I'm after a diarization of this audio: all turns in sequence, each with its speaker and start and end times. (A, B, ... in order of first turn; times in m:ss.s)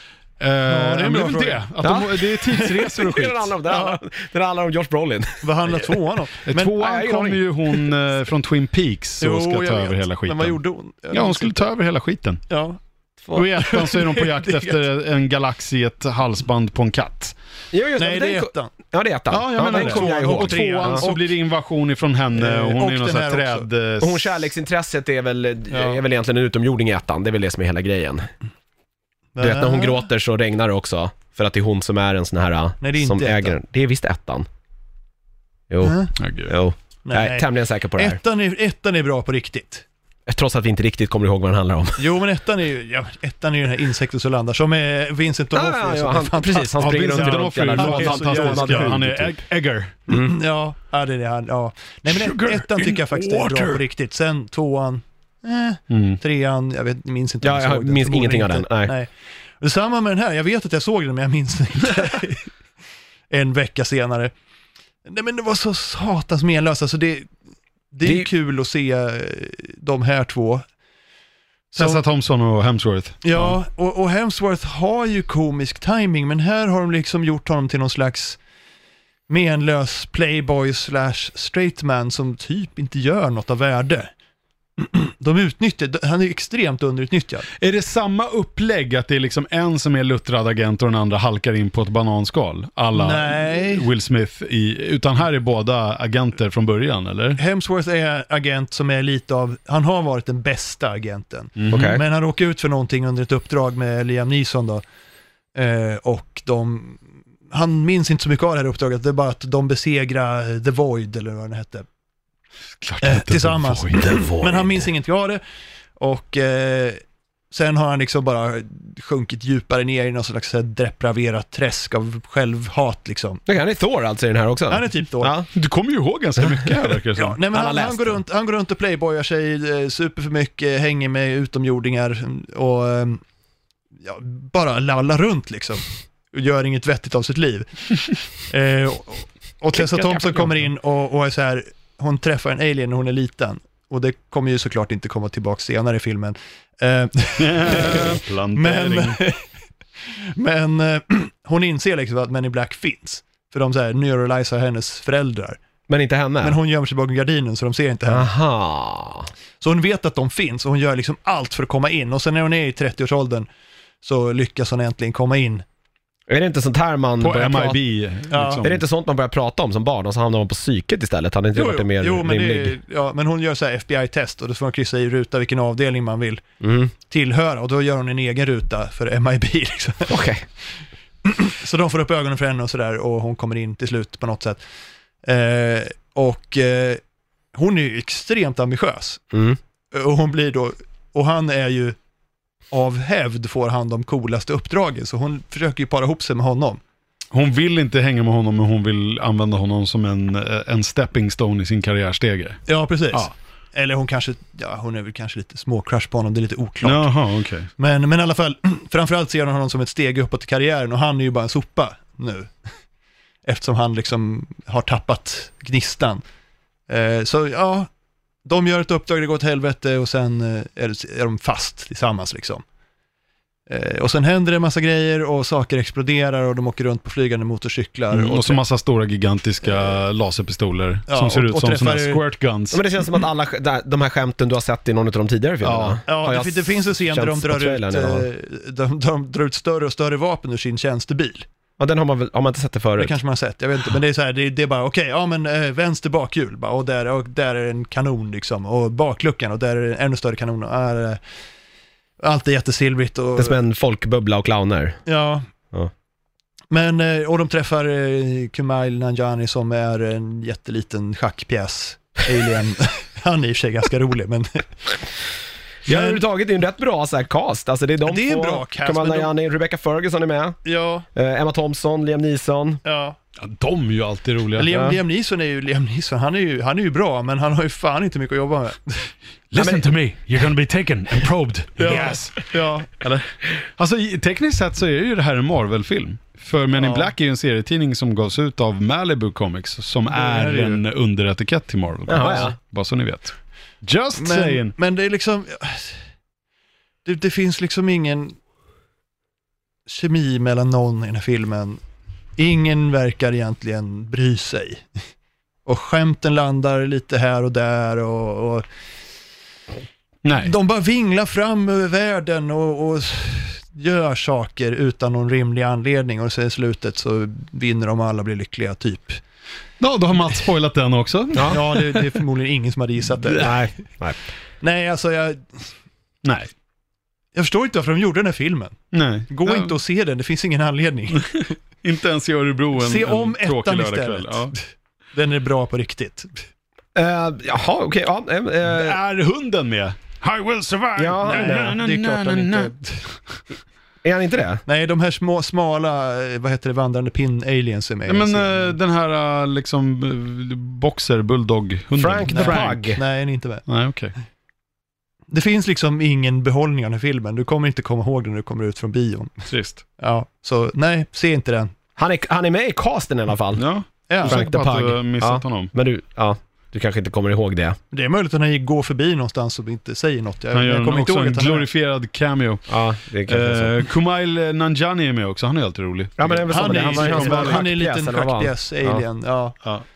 0:00.4-0:03.5 A
0:00.7-0:01.6 B
0:01.8-0:06.0 C
0:03.7-0:04.0 B
0:05.4-0:06.8 B
0:06.4-0:10.6 A
0:06.7-0:07.9 C
0:09.2-0:11.7 B
0:11.1-0:12.4 A
0:12.5-0:12.8 B
0:13.3-0:17.3 A
0:13.6-0:14.7 B
0:17.7-0:21.1 C
0:18.0-0:18.7 B
0:19.3-0:24.4 A
0:19.6-0:21.3 B
0:22.3-0:23.6 B
0:24.0-0:28.3 C
0:25.7-0:26.0 B
0:29.4-0:30.1 B
0:29.4-0:34.5 C
0:32.8-0:33.6 B
0:35.7-0:38.2 C
0:35.8-0:36.1 B
0:36.2-0:36.5 A
0:37.0-0:39.8 B
0:40.3-0:42.0 C
0:42.0-0:49.0 B
0:45.5-0:49.3 C
0:46.8-0:50.0 A
0:50.1-1:02.5 B
0:52.1-0:53.8 A
0:55.9-0:56.2 A
0:57.4-0:58.9 C
1:03.3-1:04.3 B
1:05.0-1:07.3 B
1:07.9-1:10.6 B
1:11.7-1:12.0 B
1:11.7-1:13.6 A
1:13.2-1:18.4 B
1:19.3-1:24.1 B
1:24.8-1:27.5 B
1:27.6-1:37.4 A
1:32.9-1:33.9 B
1:37.4-1:44.8 B
1:41.6-1:42.0 A
1:41.7-1:42.0 C
1:45.5-1:51.9 B
1:52.8-1:54.6 A
1:53.0-1:55.4 B
1:56.0-1:57.0 B
1:57.5-2:03.4 B
2:03.5-2:05.5 C
2:04.7-2:05.4 B
2:05.5-2:07.4 A
2:06.4-2:06.8 C
2:07.2-2:13.2 B
2:07.5-2:08.2 C
2:14.0-2:29.4 B
2:19.7-2:20.5 C
2:27.4-2:29.2 A
2:30.1-2:35.6 B
2:35.9-2:36.6 C
2:36.4-2:38.3 B
2:38.1-2:39.3 C
2:39.6-2:43.5 B
2:44.0-2:45.6 B
2:46.3-2:47.8 C
2:47.2-2:48.8 A
2:48.3-2:48.6 B
2:48.6-2:52.8 C
2:51.5-2:56.4 B
2:56.6-2:56.9 C
2:57.0-3:00.2 B
3:00.1-3:00.4 C
3:01.2-3:04.6 B
3:05.2-3:07.0 B
3:07.5-3:09.2 B
3:09.3-3:09.6 C
3:09.9-3:12.0 B
3:12.7-3:16.8 B
3:17.3-3:22.6 A
3:22.7-3:27.1 B
3:26.8-3:27.7 A
3:27.8-3:32.5 B
3:33.4-3:36.2 B
3:36.9-3:37.9 B
3:38.4-3:42.6 B
3:43.7-3:48.6 B
3:48.1-3:52.8 A
3:51.1-3:52.2 B
3:52.7-3:58.3 C
3:55.6-3:56.0 A
3:56.1-4:01.5 B
4:01.8-4:03.1 C
4:03.0-4:11.2 B
4:12.2-4:13.6 B
4:13.4-4:15.0 C
4:15.0-4:15.4 B
4:16.7-4:25.0 B
4:25.9-4:30.6 C
4:25.9-4:26.2 B
4:28.0-4:29.3 B
4:30.6-4:31.0 B
4:31.1-4:32.8 C
4:32.8-4:33.2 B
4:33.4-4:34.8 A
4:34.6-4:39.1 B
4:39.5-4:42.5 A
4:39.6-4:39.9 C
4:41.8-4:43.0 B
4:43.8-4:54.7 A
4:46.7-4:47.1 B
4:50.1-4:50.8 B
4:52.1-4:52.5 C
4:52.2-4:52.5 B
4:54.2-4:56.0 B
4:57.0-4:58.4 B
4:59.9-5:01.8 B
5:02.4-5:04.9 B
5:05.6-5:08.6 B
5:10.2-5:10.5 A
5:10.4-5:19.2 B
5:19.8-5:22.1 A
5:21.3-5:21.6 C
5:21.5-5:23.7 B
5:23.4-5:24.2 C
5:24.6-5:25.7 B
5:26.2-5:26.5 A
5:27.3-5:28.8 B
5:28.9-5:29.7 A
5:29.3-5:31.3 B
5:31.2-5:34.5 A
5:32.8-5:34.5 B
5:35.1-5:36.3 B
5:36.9-5:39.0 C
5:38.6-5:43.4 A
5:41.0-5:42.0 C
5:41.2-5:42.7 B
5:44.0-5:44.6 C
5:44.7-5:48.7 B
5:48.1-5:53.0 A
5:52.0-5:53.0 C
5:52.3-5:53.6 B
5:53.7-5:54.1 A
5:55.3-5:59.5 B
5:59.5-5:59.8 A
6:00.0-6:01.7 B
6:02.0-6:03.6 C
6:03.6-6:05.7 A
6:04.1-6:04.5 B
6:04.2-6:07.8 C
6:07.9-6:11.7 B
6:10.5-6:17.7 A
6:12.7-6:13.9 C
6:16.2-6:19.0 C
6:16.5-6:19.6 B